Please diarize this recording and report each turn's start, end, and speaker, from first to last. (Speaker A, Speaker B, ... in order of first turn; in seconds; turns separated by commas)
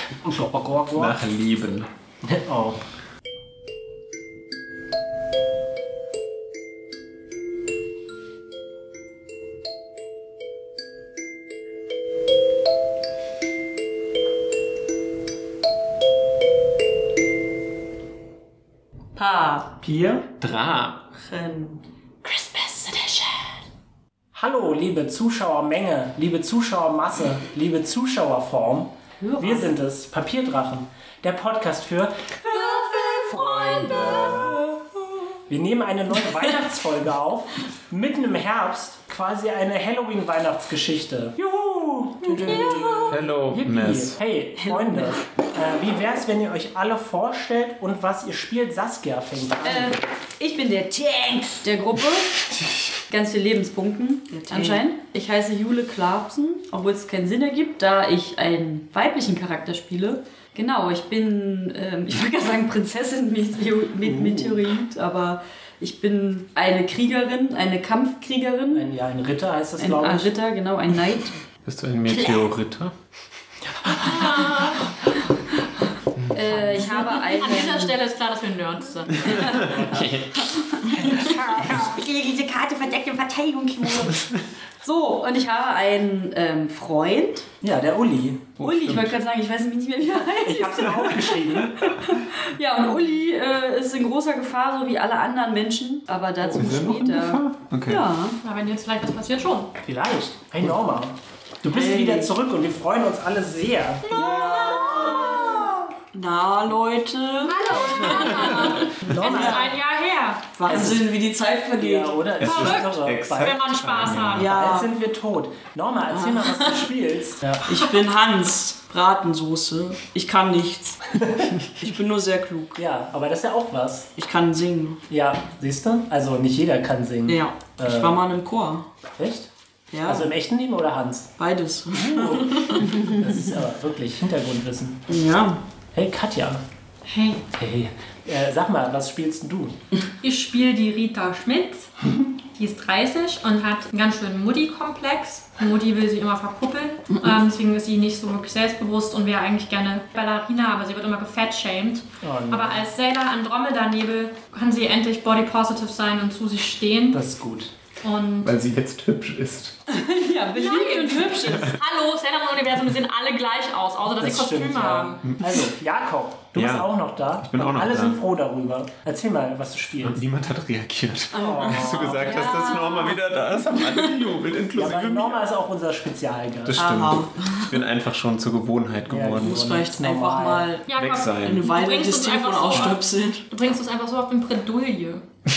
Speaker A: 0.1-1.2, Speaker B: 0.9-1.9, Speaker A: 2.2-2.8, Speaker C: 19.2-19.8, Speaker A: 19.8-20.2, Speaker B: 20.4-21.0, Speaker C: 21.2-23.5, Speaker A: 24.3-34.7, Speaker C: 29.2-29.7, Speaker D: 32.5-34.5, Speaker A: 35.5-50.0, Speaker E: 42.2-43.1, Speaker B: 43.1-44.2, Speaker C: 49.6-52.4, Speaker B: 52.6-52.9, Speaker C: 53.1-68.9, Speaker E: 54.3-54.8, Speaker A: 64.1-64.5, Speaker A: 68.7-70.3, Speaker C: 69.8-71.3, Speaker B: 71.6-72.9, Speaker A: 73.8-74.8, Speaker D: 74.0-74.9, Speaker C: 76.3-78.0, Speaker D: 76.7-79.5, Speaker B: 79.2-80.8, Speaker C: 79.2-84.3, Speaker A: 79.5-80.1, Speaker A: 80.9-81.9, Speaker C: 84.8-87.5, Speaker A: 87.6-88.5, Speaker B: 88.6-89.1, Speaker C: 88.6-98.4, Speaker A: 90.4-92.0, Speaker B: 96.4-98.0, Speaker D: 98.4-99.7, Speaker A: 99.8-104.3, Speaker C: 101.8-102.3, Speaker D: 104.1-105.6, Speaker E: 104.1-108.9, Speaker C: 104.3-105.7, Speaker D: 107.4-110.5, Speaker C: 107.7-108.3, Speaker A: 108.5-109.7, Speaker E: 110.5-112.3, Speaker A: 110.7-111.0, Speaker A: 111.7-117.7, Speaker B: 112.4-114.5, Speaker D: 112.4-114.5, Speaker E: 114.3-114.9, Speaker E: 117.6-122.8, Speaker A: 121.2-121.5, Speaker A: 122.8-124.1, Speaker E: 124.2-125.0, Speaker A: 125.1-128.2, Speaker E: 127.3-128.9, Speaker A: 129.1-129.5, Speaker E: 129.9-130.3, Speaker A: 130.0-131.3, Speaker E: 131.4-133.2, Speaker A: 131.9-135.1, Speaker E: 135.1-135.6, Speaker A: 135.9-136.6, Speaker D: 137.1-137.4, Speaker A: 137.5-139.8, Speaker D: 140.2-157.2, Speaker A: 152.2-152.9, Speaker A: 157.1-157.7, Speaker D: 158.0-158.5, Speaker B: 158.4-159.8, Speaker C: 159.9-161.8, Speaker D: 160.5-165.3, Speaker A: 164.1-170.2, Speaker B: 166.5-168.2, Speaker B: 170.0-175.4, Speaker A: 171.3-172.4, Speaker D: 172.1-173.2, Speaker A: 174.7-177.1, Speaker B: 176.7-179.6, Speaker E: 176.8-177.8, Speaker A: 179.1-180.7, Speaker E: 179.4-180.9, Speaker D: 180.9-185.2, Speaker B: 180.9-181.7, Speaker E: 181.4-183.5